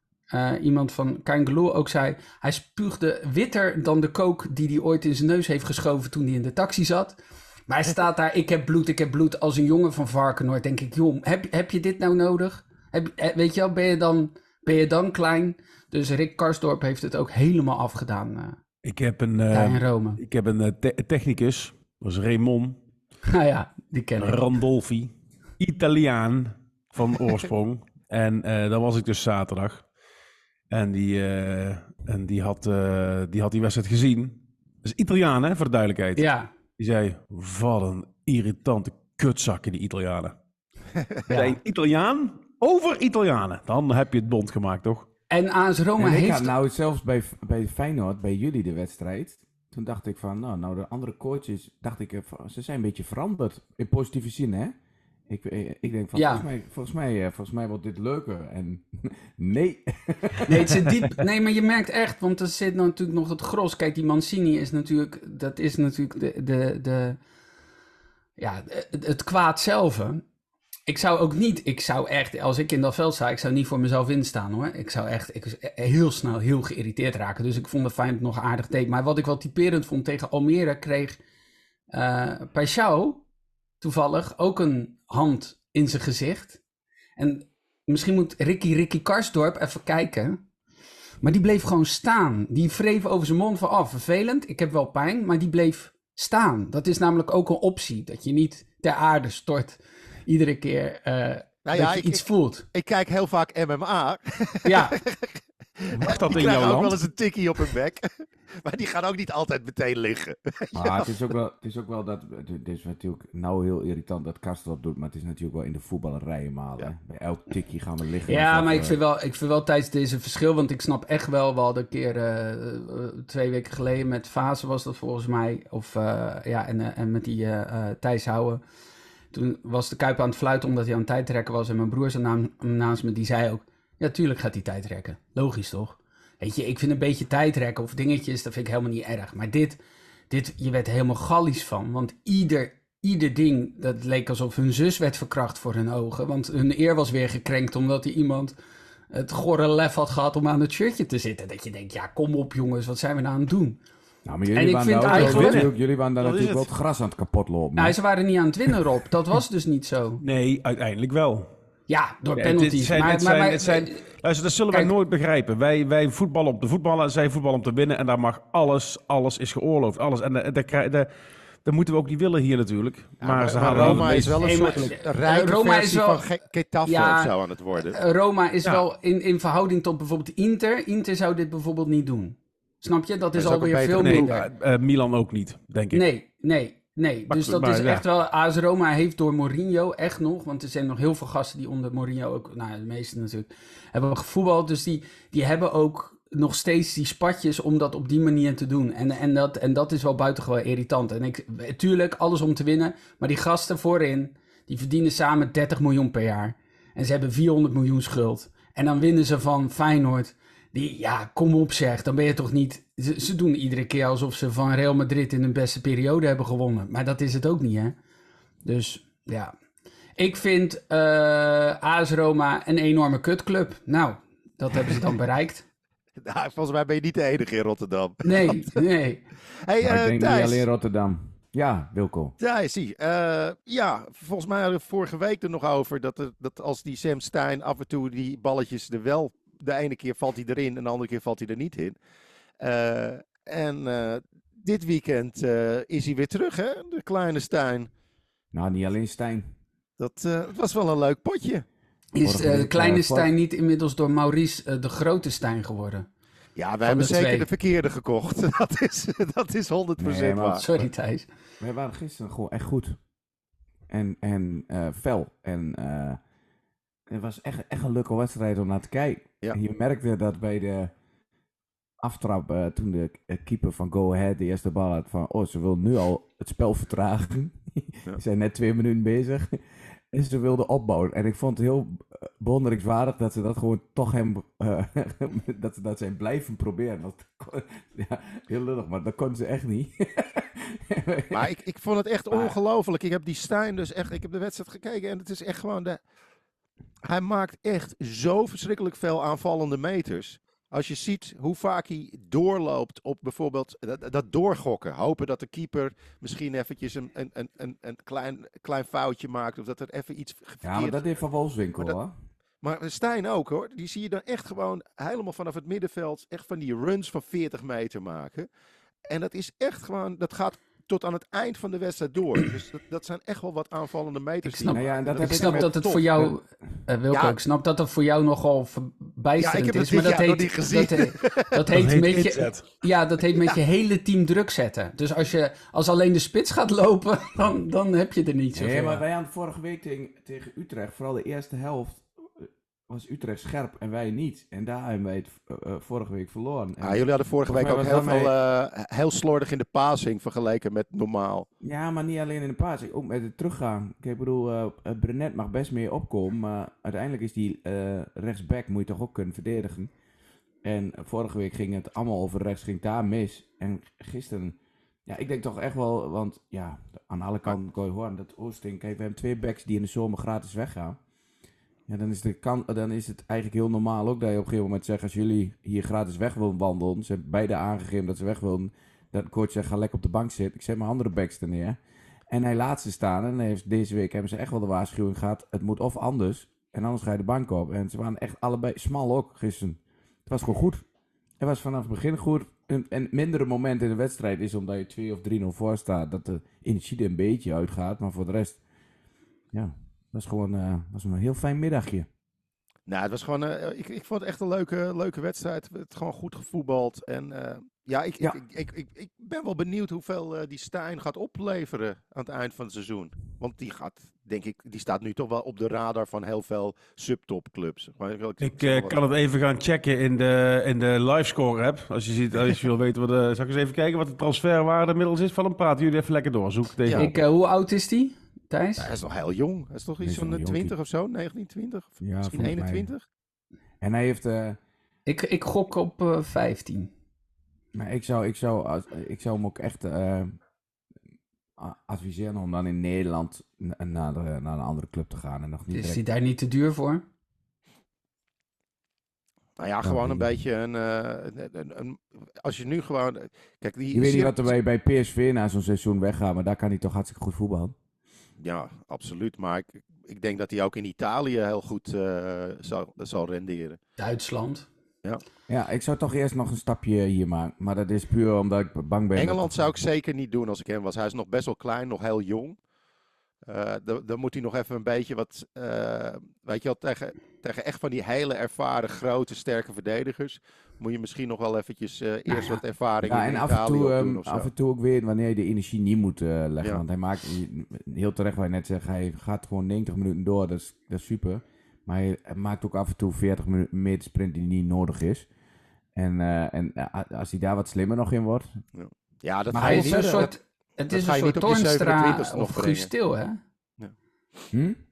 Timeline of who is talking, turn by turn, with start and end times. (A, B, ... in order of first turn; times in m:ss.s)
0:00.3-0:18.6 A
0:18.8-0:22.8 B
0:19.5-0:20.2 A
0:23.3-0:24.5 A
0:24.2-0:29.8 B
0:30.7-0:36.2 B
0:36.2-0:36.5 A
0:36.8-0:40.4 B
0:41.3-0:41.6 A
0:41.3-0:45.1 B
0:45.3-0:46.5 A
0:46.0-0:54.7 C
0:55.3-1:00.7 C
0:56.1-0:56.4 A
1:00.4-1:07.2 A
1:08.4-1:10.2 A
1:10.9-1:21.2 A
1:21.9-1:23.2 A
1:23.8-1:26.6 A
1:27.2-1:30.4 A
1:31.2-1:42.6 A
1:41.6-1:48.1 D
1:44.6-1:45.0 A
1:46.0-1:47.0 B
1:48.6-1:51.2 D
1:50.7-1:59.0 C
1:58.3-2:08.6 A
2:09.3-2:28.6 A
2:29.1-2:33.8 A
2:34.2-2:38.0 C
2:34.5-2:35.7 A
2:35.1-2:36.7 B
2:37.8-2:40.2 A
2:40.2-2:41.5 B
2:41.9-2:44.0 A
2:42.4-2:51.1 B
2:51.6-2:54.9 B
2:53.2-2:58.0 D
2:53.7-2:56.3 A
2:56.8-3:04.5 A
3:03.3-3:04.3 D
3:04.0-3:06.0 B
3:05.9-3:37.9 A
3:07.3-3:08.0 B
3:38.6-3:39.5 A
3:40.2-3:45.6 A
3:46.2-3:48.6 D
3:48.2-3:49.2 A
3:49.6-3:50.6 D
3:49.8-3:52.3 C
3:52.4-4:02.0 D
4:02.6-4:07.9 D
4:08.5-4:09.5 C
4:10.0-4:11.6 D
4:12.1-4:16.1 A
4:12.2-4:13.3 C
4:16.6-4:20.7 D
4:16.8-4:17.5 A
4:20.0-4:20.8 C
4:20.6-4:21.3 A
4:21.6-4:23.0 C
4:23.9-4:26.2 C
4:27.1-4:30.9 C
4:32.0-4:51.5 C
4:51.3-4:56.0 D
4:52.3-4:52.6 C
4:57.0-5:11.0 D
5:10.6-5:12.1 C
5:12.6-5:18.5 D
5:19.1-5:26.0 D
5:24.4-5:39.0 A
5:24.7-5:26.3 C
5:27.1-5:27.4 D
5:29.4-5:31.7 D
5:31.7-5:32.6 B
5:38.5-5:48.3 C
5:46.8-5:51.4 D
5:51.6-5:59.9 C
6:00.6-6:11.0 C
6:11.9-6:21.8 C
6:22.3-6:30.8 C
6:31.4-6:38.6 C
6:39.5-6:42.1 C
6:42.9-6:59.0 D
6:58.4-7:07.1 B
7:07.0-7:08.9 A
7:08.8-7:13.0 D
7:10.0-7:10.7 C
7:12.0-7:12.9 C
7:13.8-7:14.6 C
7:15.0-7:16.9 A
7:17.7-7:20.3 C
7:21.6-7:26.0 C
7:25.7-7:27.0 A
7:29.6-7:34.5 D
7:29.8-7:30.3 C
7:33.9-7:37.7 C
7:38.4-7:43.8 D
7:44.0-7:44.6 A
7:45.5-7:49.6 C
7:49.1-7:52.6 D
7:53.5-8:04.5 D
8:03.0-8:15.3 C
8:15.9-8:18.5 C
8:18.7-8:20.3 D
8:19.5-8:20.3 C
8:19.5-8:23.4 A
8:20.9-8:22.9 D
8:24.5-8:24.8 C